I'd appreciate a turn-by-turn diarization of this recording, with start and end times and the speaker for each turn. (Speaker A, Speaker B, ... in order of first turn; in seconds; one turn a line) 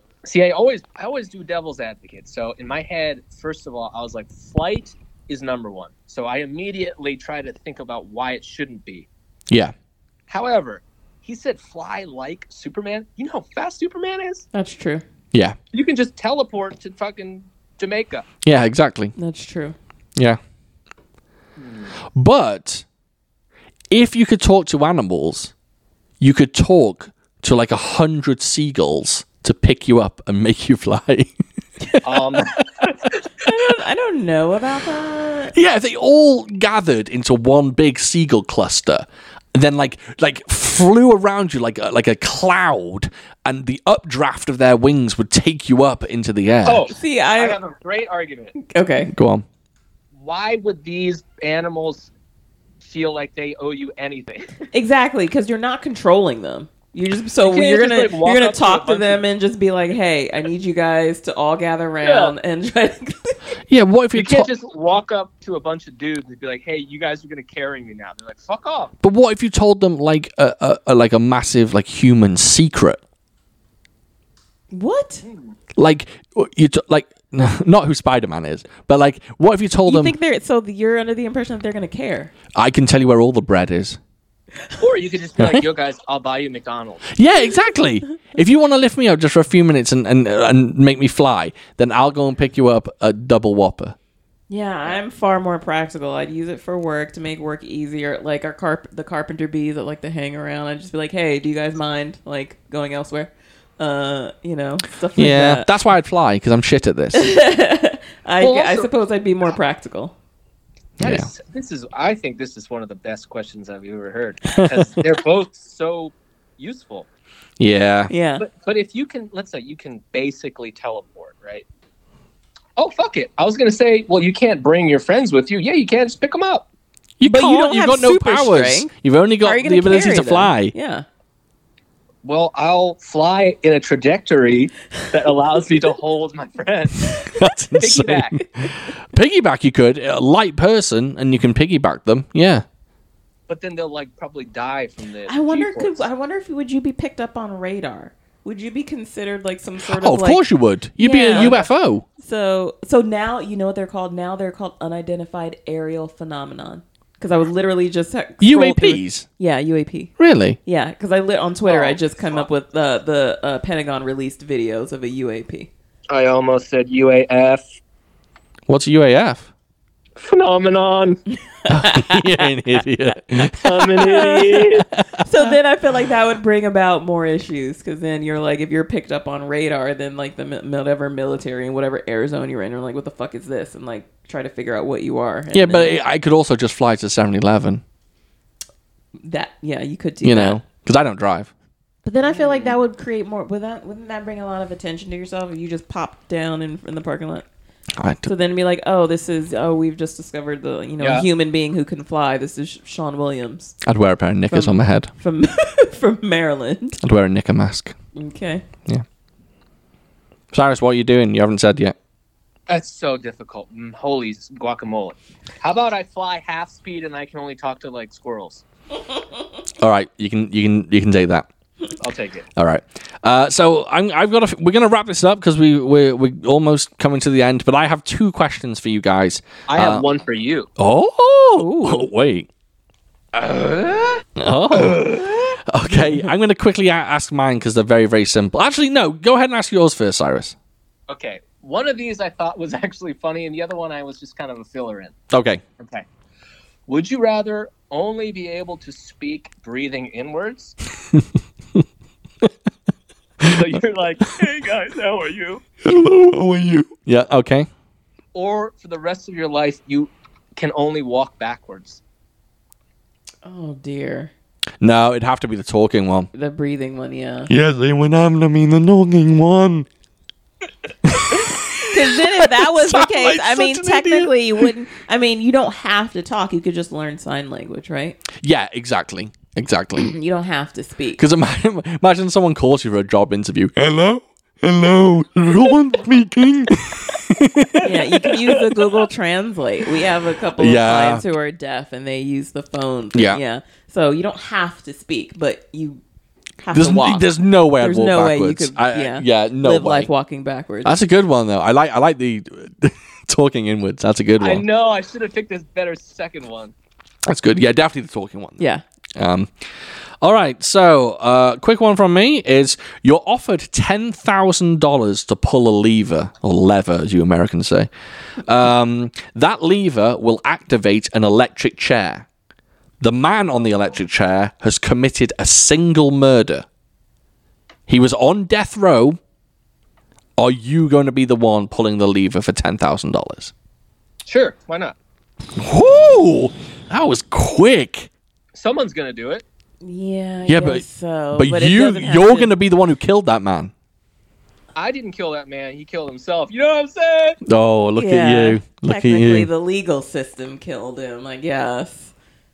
Speaker A: 0.2-9.1
Speaker A: 10.3-14.5
Speaker B: 14.5-15.0
Speaker A: 15.7-18.2
Speaker C: 18.4-19.1
Speaker B: 19.2-19.8
Speaker A: 21.6-21.9
Speaker C: 22.1-22.9
Speaker C: 23.9-25.5
Speaker C: 26.2-32.6
Speaker A: 32.0-32.9
Speaker B: 33.5-35.5
Speaker C: 35.5-46.9
Speaker A: 46.6-48.6
Speaker B: 46.9-47.6
Speaker B: 48.6-49.1
Speaker C: 49.1-49.5
Speaker A: 50.1-52.1
Speaker A: 52.8-54.6
Speaker B: 54.7-63.5
Speaker A: 57.4-59.2
Speaker A: 62.0-62.4
Speaker C: 63.7-64.5
Speaker A: 64.1-68.9
Speaker C: 69.0-73.0
Speaker B: 74.7-75.2
Speaker A: 75.2-75.5
Speaker C: 75.8-80.2
Speaker B: 79.9-82.3
Speaker C: 82.5-84.0
Speaker A: 84.8-87.1
Speaker C: 85.4-85.7
Speaker C: 87.1-94.0
Speaker B: 94.5-105.7
Speaker C: 105.2-107.3
Speaker B: 107.1-110.2
Speaker A: 108.4-108.9
Speaker C: 111.0-111.3
Speaker A: 111.0-117.1
Speaker C: 114.5-115.0
Speaker C: 117.6-118.1
Speaker B: 118.1-118.5
Speaker A: 118.4-121.7
Speaker A: 122.8-126.7
Speaker C: 127.2-130.7
Speaker B: 127.2-128.9
Speaker B: 129.4-131.1
Speaker A: 132.2-138.4
Speaker C: 137.2-142.7
Speaker A: 143.5-146.1
Speaker B: 145.3-150.4
Speaker C: 149.9-152.1
Speaker B: 151.0-151.7
Speaker A: 151.3-151.7
Speaker B: 152.2-165.7
Speaker C: 158.4-159.3
Speaker C: 160.2-160.6
Speaker A: 161.7-162.5
Speaker A: 166.1-167.8
Speaker C: 168.7-169.5
Speaker A: 170.2-171.2
Speaker B: 171.6-172.5
Speaker C: 171.7-173.7
Speaker A: 173.5-174.9
Speaker B: 173.9-174.7
Speaker C: 174.9-175.5
Speaker B: 175.2-185.9
Speaker C: 185.5-187.8
Speaker B: 189.2-190.6
Speaker C: 190.2-191.5
Speaker B: 192.1-197.4
Speaker A: 192.2-192.8
Speaker C: 198.0-198.3
Speaker B: 198.2-203.8
Speaker A: 201.0-201.3
Speaker C: 203.8-205.1
Speaker B: 204.5-207.0
Speaker C: 207.0-207.9
Speaker B: 208.2-208.6
Speaker C: 210.5-211.9
Speaker A: 212.7-218.6
Speaker C: 219.8-221.5
Speaker A: 222.0-222.5
Speaker C: 222.6-230.1
Speaker A: 229.7-230.7
Speaker C: 230.8-232.5
Speaker B: 231.6-232.1
Speaker A: 233.3-234.2
Speaker C: 234.4-240.6
Speaker A: 234.8-235.3
Speaker B: 235.9-236.2
Speaker A: 241.1-245.2
Speaker C: 245.3-245.6
Speaker A: 245.8-246.1
Speaker A: 246.9-250.8
Speaker A: 253.4-255.6
Speaker C: 255.8-257.7
Speaker A: 258.3-262.0
Speaker B: 263.4-264.3
Speaker C: 264.8-266.3
Speaker B: 266.3-267.5
Speaker C: 267.5-269.9
Speaker C: 271.1-274.7
Speaker B: 271.8-278.2
Speaker C: 278.4-280.1
Speaker B: 280.0-281.2
Speaker C: 281.2-288.0
Speaker B: 287.8-296.0
Speaker A: 288.3-288.6
Speaker C: 290.6-291.2
Speaker C: 293.1-293.4
Speaker B: 296.6-297.3
Speaker C: 296.7-300.1
Speaker B: 297.8-301.0
Speaker C: 300.8-304.6
Speaker A: 304.4-306.7
Speaker C: 307.3-308.6
Speaker C: 309.2-309.5
Speaker C: 310.2-317.9
Speaker C: 318.4-322.3
Speaker C: 323.0-326.7
Speaker C: 327.9-329.2
Speaker C: 330.4-333.5
Speaker A: 334.3-335.0
Speaker C: 335.6-338.1
Speaker A: 338.5-339.4
Speaker B: 339.8-342.5
Speaker C: 340.5-340.8
Speaker C: 341.4-343.7
Speaker A: 344.8-347.4
Speaker C: 347.4-349.5
Speaker B: 348.0-352.1